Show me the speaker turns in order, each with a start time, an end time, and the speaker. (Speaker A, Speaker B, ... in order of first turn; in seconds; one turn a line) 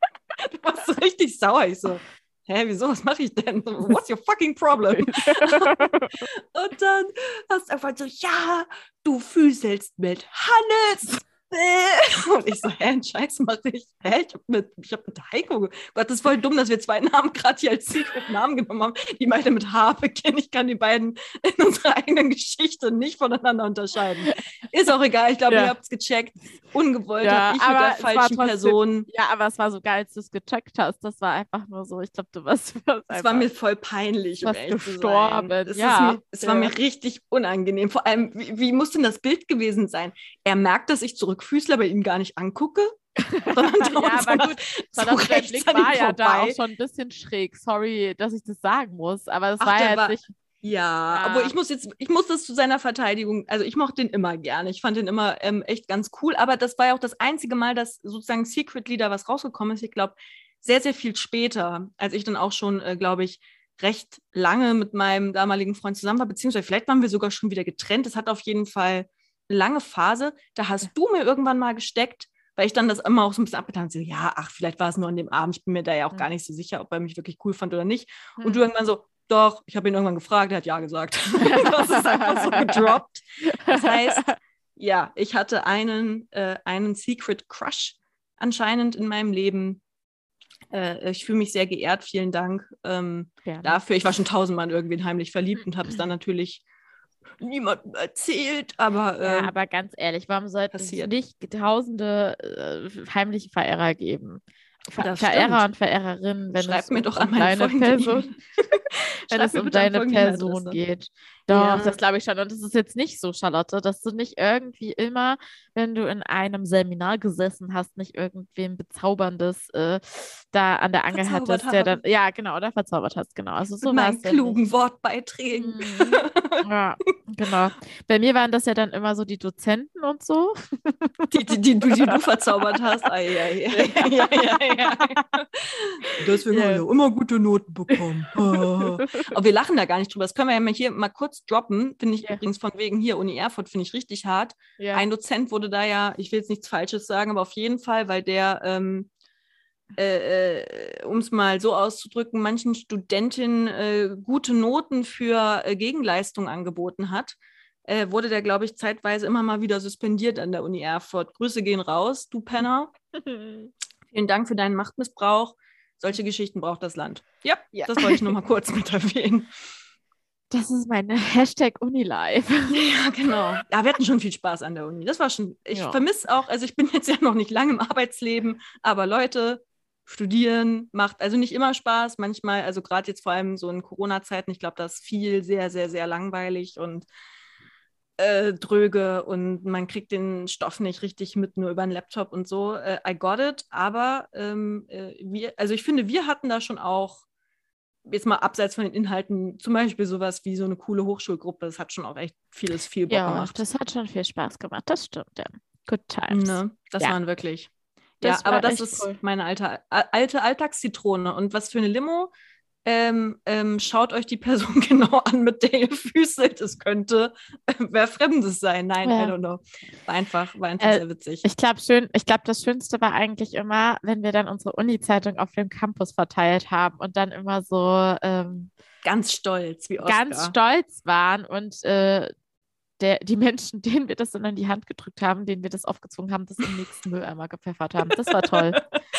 Speaker A: 0.4-29.1
Speaker B: 4.9-6.2
Speaker B: 25.5-25.8
Speaker B: 27.2-33.5
Speaker A: 33.1-46.6
Speaker B: 34.4-36.7
Speaker B: 43.2-50.3
Speaker A: 49.6-89.8
Speaker B: 51.1-51.5
Speaker B: 81.4-84.4
Speaker A: 90.7-96.6
Speaker B: 93.5-93.8
Speaker A: 97.4-99.5
Speaker B: 99.2-108.3
Speaker A: 100.7-101.1
Speaker A: 105.0-105.6
Speaker A: 106.5-110.8
Speaker B: 109.3-124.6
Speaker A: 111.5-112.0
Speaker A: 121.1-122.0
Speaker A: 123.8-126.6
Speaker B: 125.5-131.3
Speaker A: 131.3-149.1
Speaker B: 131.9-132.2
Speaker B: 133.7-135.3
Speaker B: 136.1-136.8
Speaker B: 137.9-139.3
Speaker B: 144.8-145.1
Speaker A: 150.0-162.9
Speaker B: 163.2-163.7
Speaker A: 164.1-169.5
Speaker B: 167.9-168.3
Speaker B: 170.5-172.8
Speaker A: 172.7-187.1
Speaker B: 175.7-176.0
Speaker A: 188.2-197.2
Speaker A: 198.1-203.6
Speaker B: 203.1-207.2
Speaker A: 206.3-207.7
Speaker B: 208.2-209.2
Speaker A: 208.2-212.3
Speaker A: 212.8-221.4
Speaker B: 219.0-219.3
Speaker B: 220.8-228.7
Speaker A: 229.0-230.5
Speaker B: 230.0-232.3
Speaker B: 233.0-238.8
Speaker A: 238.3-238.9